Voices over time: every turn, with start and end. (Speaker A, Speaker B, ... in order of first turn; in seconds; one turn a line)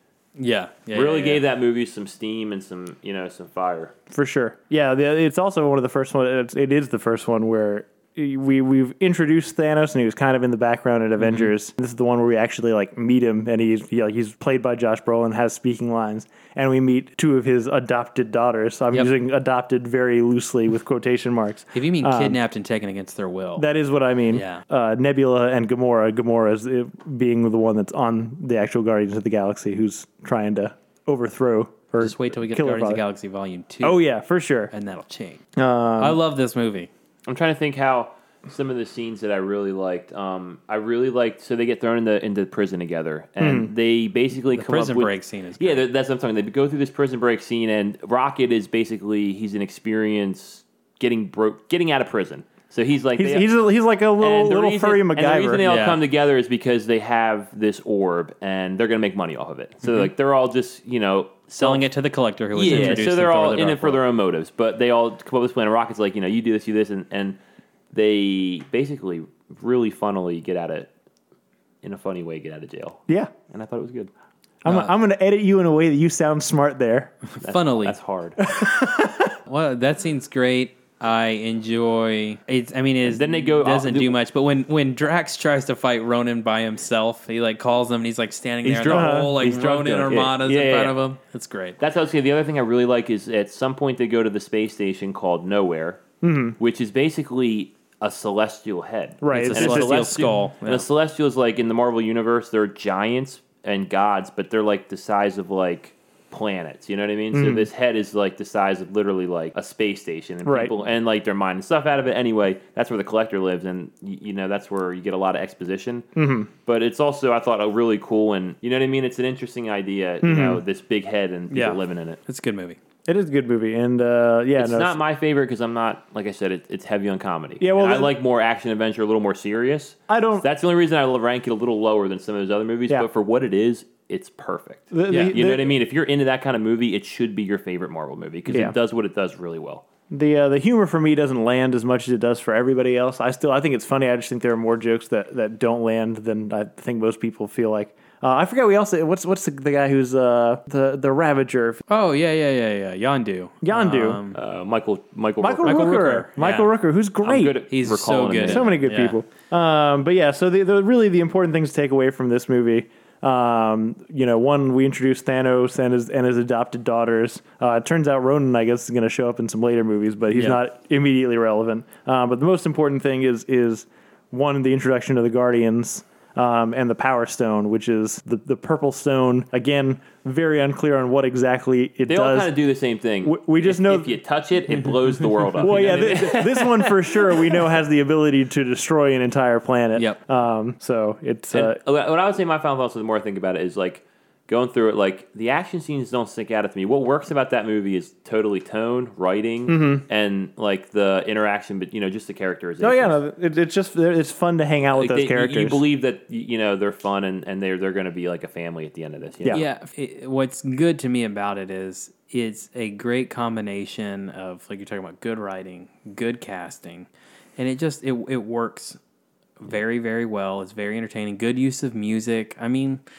Speaker A: 0.3-1.4
Speaker B: 0.9-3.9
Speaker C: 4.1-22.4
Speaker A: 11.2-11.5
Speaker A: 21.7-23.7
Speaker C: 23.6-33.0
Speaker A: 24.3-24.6
Speaker A: 32.0-34.0
Speaker C: 33.8-34.7
Speaker A: 34.7-35.4
Speaker C: 35.5-36.2
Speaker A: 36.0-36.9
Speaker B: 37.2-53.5
Speaker C: 43.4-43.7
Speaker A: 44.5-45.8
Speaker C: 53.1-55.6
Speaker B: 54.2-61.8
Speaker A: 55.6-56.0
Speaker A: 61.6-64.0
Speaker B: 62.5-67.4
Speaker C: 62.7-63.0
Speaker B: 67.9-70.9
Speaker B: 71.8-74.1
Speaker C: 74.6-77.1
Speaker A: 77.3-78.0
Speaker B: 77.4-78.4
Speaker C: 78.4-79.3
Speaker A: 79.5-91.8
Speaker B: 83.0-84.1
Speaker C: 88.6-89.3
Speaker B: 88.8-91.0
Speaker B: 91.8-96.0
Speaker C: 96.2-96.6
Speaker B: 96.6-116.1
Speaker C: 99.2-99.8
Speaker A: 99.3-100.9
Speaker C: 107.3-107.7
Speaker C: 110.4-110.7
Speaker C: 116.2-116.5
Speaker B: 116.7-122.2
Speaker C: 120.2-120.6
Speaker A: 121.5-122.8
Speaker C: 123.1-125.0
Speaker B: 124.5-139.8
Speaker C: 127.6-128.1
Speaker C: 130.1-130.4
Speaker C: 134.9-135.8
Speaker C: 138.5-138.7
Speaker C: 140.1-151.8
Speaker A: 151.9-154.4
Speaker C: 153.6-154.2
Speaker B: 154.3-156.0
Speaker C: 155.4-157.6
Speaker A: 155.6-156.7
Speaker B: 157.2-158.8
Speaker A: 157.7-159.2
Speaker C: 158.4-182.5
Speaker B: 182.1-187.6
Speaker C: 183.2-184.2
Speaker A: 184.9-186.2
Speaker C: 185.6-191.8
Speaker B: 191.5-203.2
Speaker C: 199.7-200.0
Speaker C: 202.8-205.8
Speaker B: 204.9-209.6
Speaker A: 209.5-219.0
Speaker A: 219.6-223.0